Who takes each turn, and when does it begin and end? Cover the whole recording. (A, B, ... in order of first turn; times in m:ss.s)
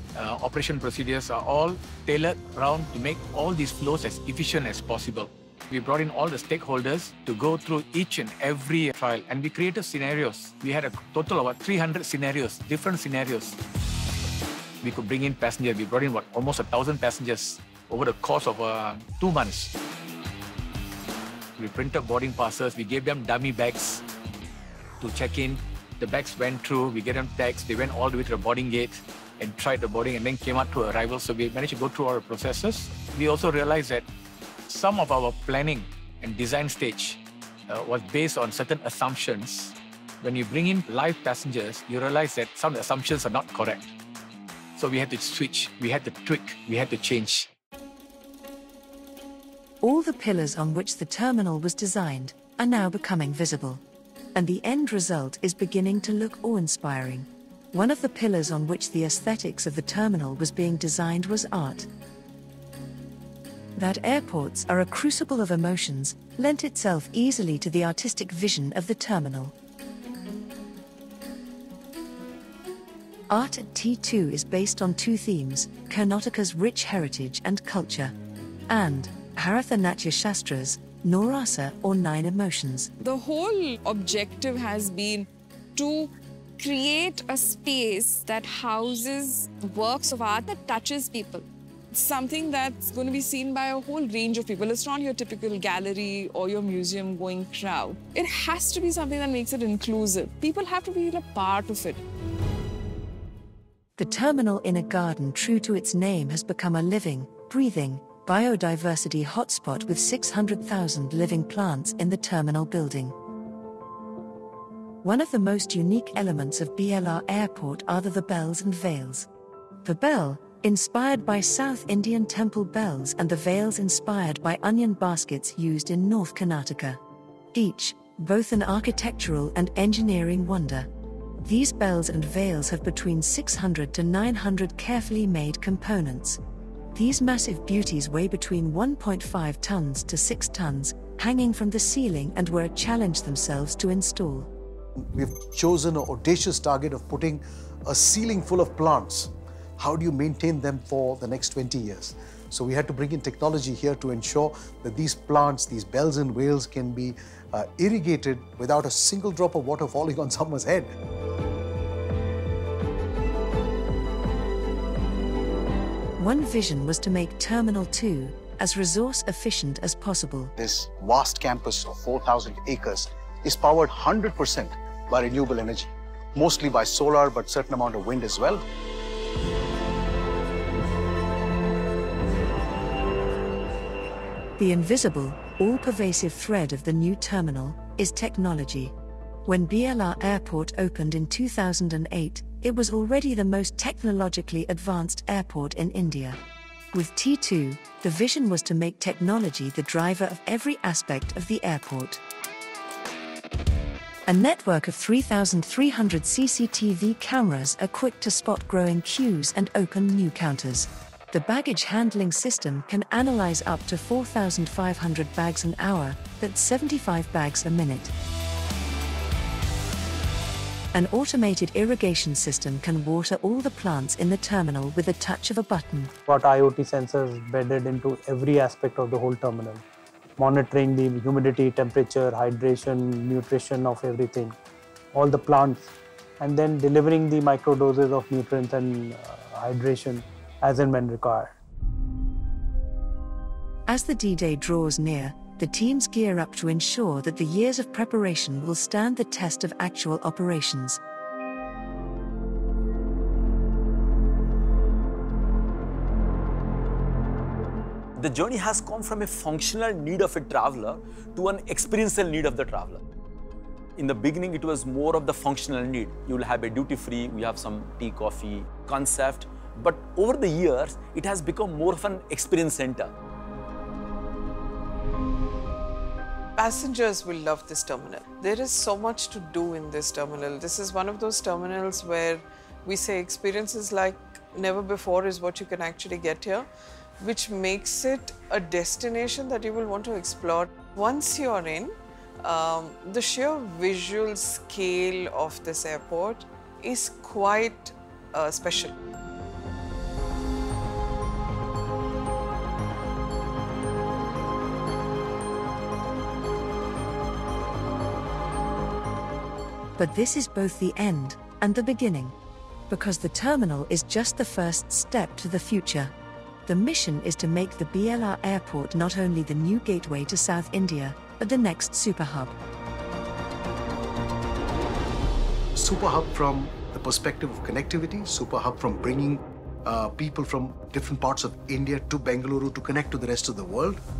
0:00.2-0:13.6 A
0:14.8-0:19.7 A
0:21.6-0:24.0 A
0:25.0-0:34.1 A
0:34.7-0:43.9 A
0:44.8-0:47.5 A
0:49.8-0:53.8 B
0:54.4-1:01.9 B
1:03.8-1:09.5 B
1:13.3-1:18.2 B
1:18.7-1:22.9 B
1:23.0-1:42.0 C
1:44.0-1:53.2 B
1:55.0-1:59.3 B
1:59.8-2:07.0 B
2:07.5-2:16.4 B
2:16.9-2:24.5 B
2:25.0-2:40.9 D
2:46.2-2:50.5 B
2:50.6-2:58.6 D
3:04.6-3:08.9 B
3:09.4-3:16.4 B
3:16.9-3:22.2 B
3:24.3-3:38.1 B
3:40.9-3:46.1 B
3:46.3-3:49.8 E
3:50.4-3:54.6 E
3:55.1-4:01.5 E
4:03.9-4:11.0 B
4:18.2-4:23.0 F
4:24.0-4:33.1 F
4:36.6-4:46.7 G
4:47.2-4:58.9 G
5:10.0-5:12.4 B
5:12.9-5:16.1 B
5:16.7-5:22.6 B
5:25.8-5:34.0 D